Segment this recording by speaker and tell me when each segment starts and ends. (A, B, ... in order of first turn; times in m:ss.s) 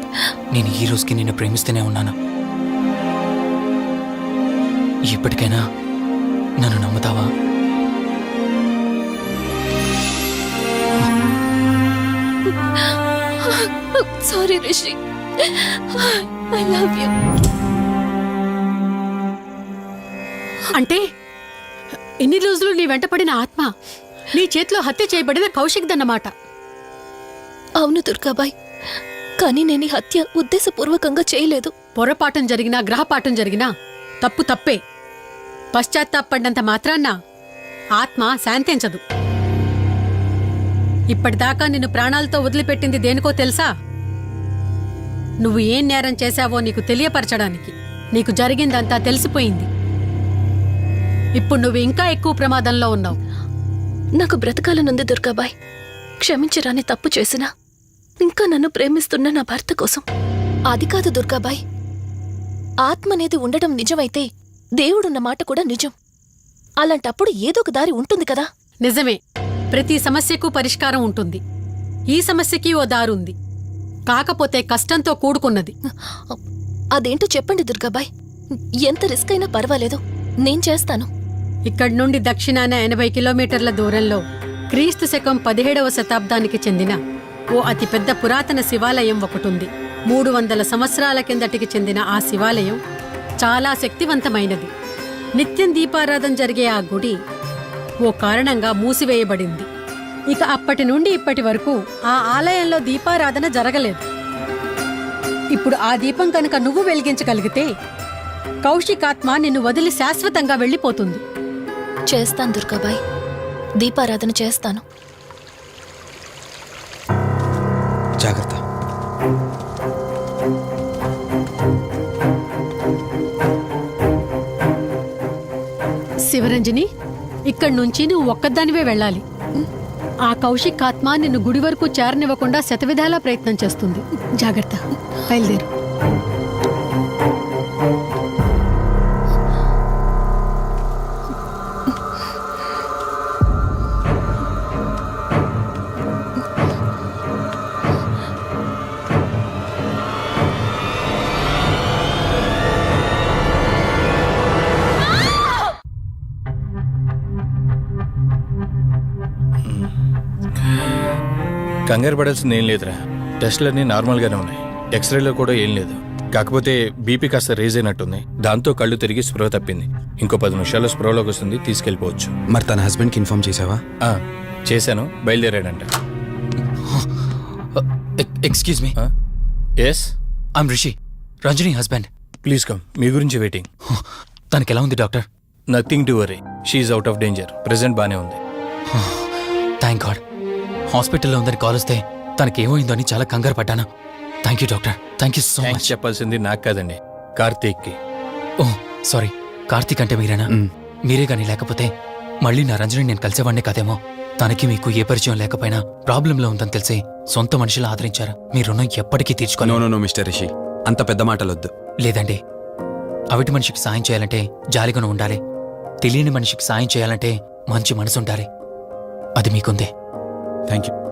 0:00.5-0:02.1 A
0:05.1-0:05.6 A
0:06.6-0:07.3 A
0:12.5-0:17.2 B
0:20.7-0:21.0 C
0:22.2-0:23.7 C
0:24.3-0:26.3 C
0:27.8-0:31.7 B
0:32.0-0:33.7 C
0:34.2-0:34.8 C
0:35.8-0:37.2 C
0:38.0-0:39.0 C
0:41.1-0:43.7 C
0:45.4-0:49.7 C
0:51.4-0:53.2 C
0:54.2-0:55.5 B
0:56.2-0:57.5 B
0:58.2-1:00.0 B
1:00.7-1:01.6 B
1:02.8-1:04.3 B
1:04.8-1:05.9 B
1:06.8-1:08.5 B
1:08.8-1:09.2 C
1:09.7-1:11.4 C
1:12.1-1:13.4 C
1:14.1-1:15.7 C
1:15.9-1:16.4 B
1:17.0-1:18.1 B
1:18.8-1:21.1 B
1:21.7-1:24.2 C
1:24.7-1:27.0 C
1:27.6-1:32.8 C
1:33.4-1:34.7 C
1:35.4-1:37.2 C
1:38.1-1:39.7 C
1:40.3-1:44.0 C
1:45.6-1:47.7 C
1:48.6-1:51.2 C
1:52.1-1:53.0 B
1:53.8-1:54.8 B
1:58.2-1:58.6 D
2:06.3-2:06.9 C
2:07.5-2:09.2 C
2:10.3-2:15.7 C
2:41.9-2:52.3 E
2:52.5-2:53.8 D
2:54.0-2:55.8 E
2:56.8-2:59.0 A
2:59.8-3:00.1 E
3:00.6-3:02.1 A
3:02.4-3:03.7 E
3:03.9-3:05.2 A
3:05.7-3:08.4 E
3:08.9-3:10.2 A
3:10.9-3:13.8 A
3:14.4-3:15.9 A
3:15.6-3:18.0 E
3:18.6-3:20.5 A
3:21.1-3:21.9 A
3:22.4-3:29.8 A
3:29.6-3:31.7 D
3:32.0-3:32.4 A
3:33.3-3:35.4 A
3:36.0-3:38.5 A
3:39.4-3:39.9 A